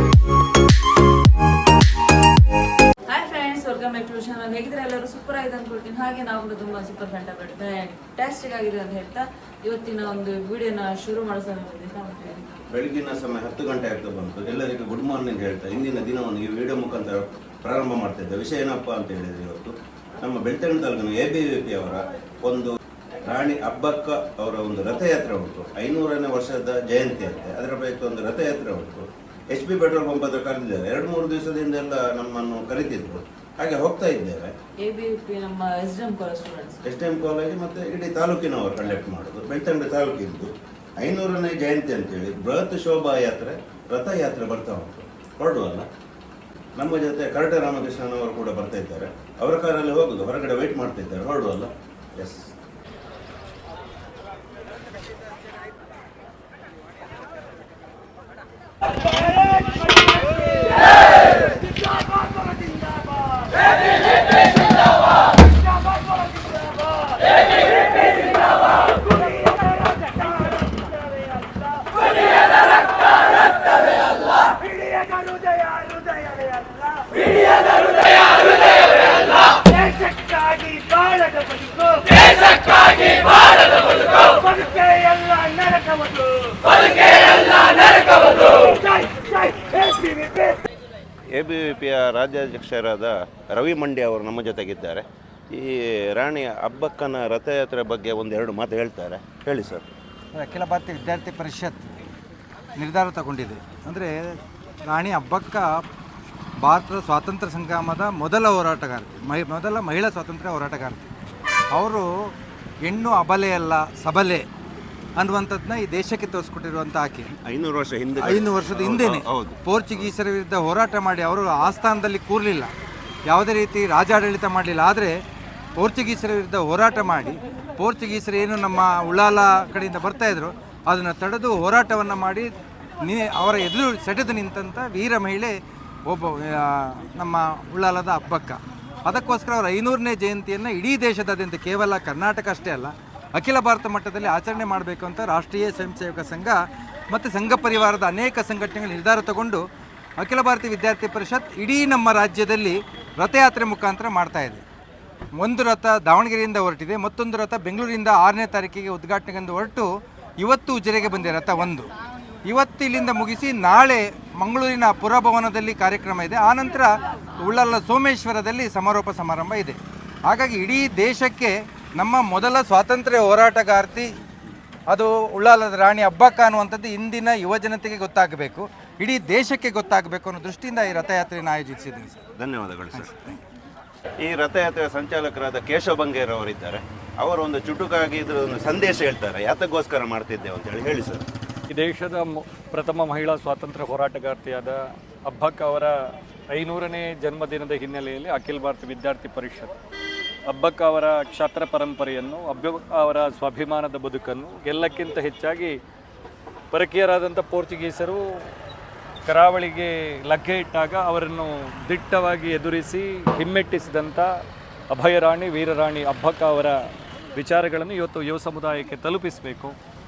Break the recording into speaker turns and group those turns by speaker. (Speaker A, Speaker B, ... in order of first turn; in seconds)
Speaker A: 3.1-12.4, 34.8-36.8
Speaker B: 12.7-22.7, 23.3-34.5, 36.9-45.9, 46.8-52.4, 91.3-99.9, 117.4-120.1, 182.4-183.1, 184.2-191.2
Speaker C: 100.4-102.0, 102.8-104.4, 104.9-105.8, 106.6-111.1, 111.7-112.1, 112.8-114.4, 115.2-117.3, 118.2-122.7, 123.3-125.1, 125.8-132.5, 133.0-135.5, 136.1-146.6, 147.1-149.6, 150.2-154.6, 155.4-159.9, 160.4-161.9, 162.5-169.8, 170.3-174.1, 174.9-182.2, 182.9-183.4
Speaker D: 191.7-196.0, 196.5-199.7, 200.5-205.8, 206.7-208.2, 209.2-214.3, 214.9-216.8, 217.4-219.8